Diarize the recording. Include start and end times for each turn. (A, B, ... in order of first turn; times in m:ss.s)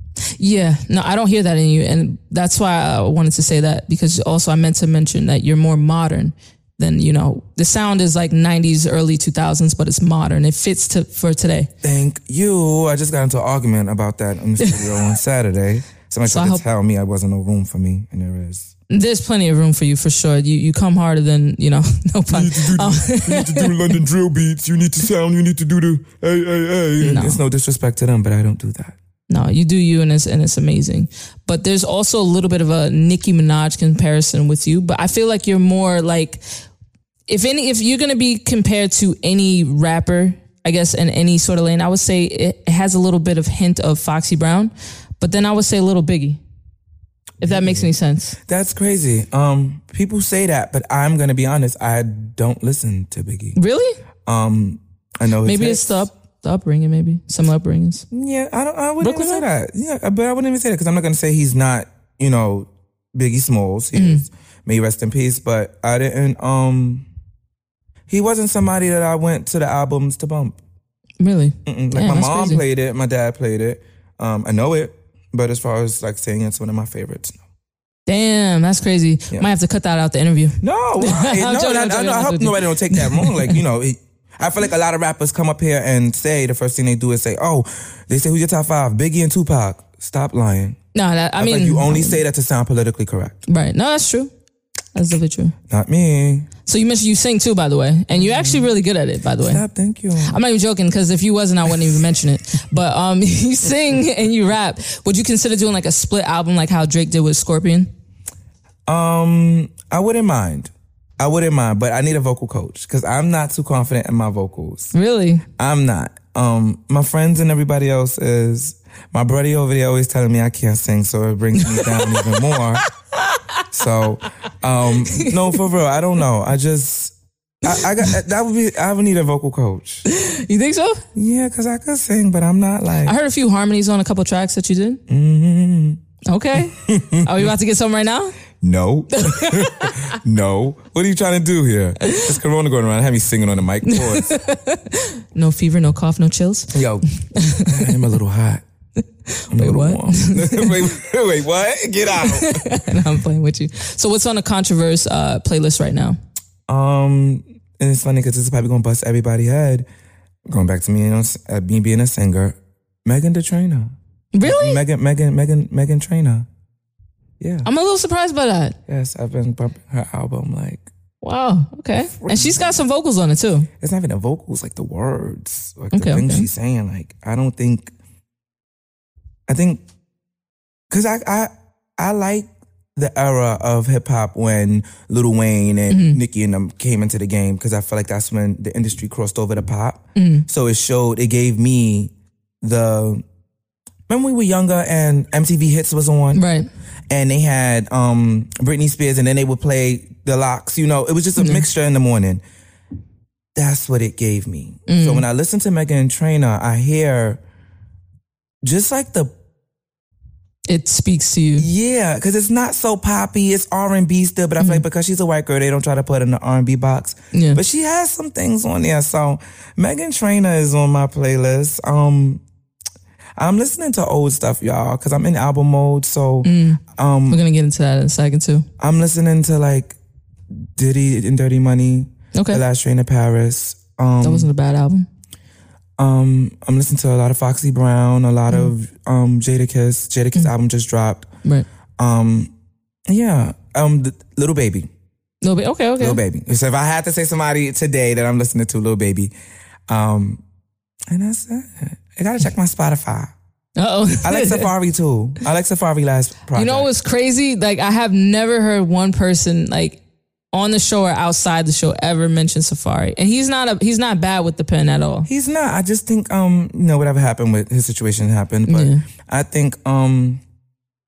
0:00.4-0:11.7 A
0:11.8-0:18.7 B
0:16.2-0:16.6 A
0:18.9-0:24.0 A
0:22.3-0:29.0 B
0:27.0-0:27.4 A
0:29.3-0:36.4 A
0:37.3-0:46.4 A
0:47.4-0:48.4 A
0:47.4-0:47.9 B
0:48.5-0:53.6 B
0:53.6-0:54.0 A
0:54.3-0:56.1 B
0:55.4-0:58.0 A
0:58.1-1:07.1 B
0:59.0-0:59.5 A
1:04.0-1:04.2 A
1:08.1-1:10.6 B
1:11.2-1:12.6 A
1:11.7-1:17.4 B
1:18.1-1:23.6 A
1:20.6-1:30.8 B
1:30.9-1:32.2 A
1:31.4-1:33.4 B
1:33.5-1:34.3 A
1:35.0-1:35.5 A
1:35.7-1:36.5 B
1:36.6-1:39.6 A
1:38.1-1:38.7 B
1:39.4-1:40.4 B
1:40.3-1:47.9 A
1:48.9-1:54.9 B
1:54.9-1:55.4 A
1:55.6-2:02.8 B
2:01.6-2:02.6 A
2:03.2-2:03.6 A
2:03.7-2:10.1 B
2:05.1-2:05.6 A
2:07.8-2:08.1 A
2:10.1-2:11.0 A
2:11.2-2:13.2 B
2:13.0-2:15.0 A
2:15.1-2:16.0 B
2:16.3-2:18.4 A
2:16.7-2:17.5 B
2:18.6-2:24.3 B
2:19.2-2:20.0 A
2:23.9-2:27.9 A
2:26.7-2:27.0 B
2:27.6-2:28.6 B
2:29.3-2:30.8 A
2:29.5-2:32.6 B
2:32.2-2:36.2 A
2:36.7-2:39.9 B
2:40.5-2:46.5 B
2:44.3-2:44.8 A
2:47.4-2:47.7 B
2:47.6-2:48.8 A
2:48.9-2:50.8 B
2:51.2-2:53.7 A
2:52.1-2:52.8 B
2:53.8-2:57.9 B
2:55.9-2:56.5 A
2:59.5-2:59.8 B
3:00.9-3:12.1 B
3:05.9-3:06.2 A
3:10.2-3:10.5 A
3:12.6-3:13.2 B
3:14.1-3:16.4 B
3:16.3-3:16.7 A
3:17.1-3:22.4 B
3:21.4-3:21.6 A
3:23.6-3:27.4 B
3:24.9-3:25.2 A
3:28.6-3:29.3 B
3:30.7-3:31.7 A
3:31.6-3:42.4 B
3:34.6-3:34.8 A
3:37.3-3:37.6 A
3:43.4-3:47.4 B
3:46.4-3:48.7 A
3:48.8-3:50.0 B
3:50.8-3:54.5 B
3:52.3-3:52.6 A
3:54.2-3:55.1 A
3:56.0-4:01.3 B
4:02.0-4:02.5 B
4:03.1-4:04.9 B
4:05.4-4:06.2 A
4:06.0-4:09.3 B
4:09.9-4:10.4 B
4:11.1-4:13.3 B
4:13.8-4:14.7 A
4:14.2-4:16.9 B
4:16.6-4:20.0 A
4:20.5-4:25.3 A
4:25.3-4:30.4 B
4:28.7-4:29.0 A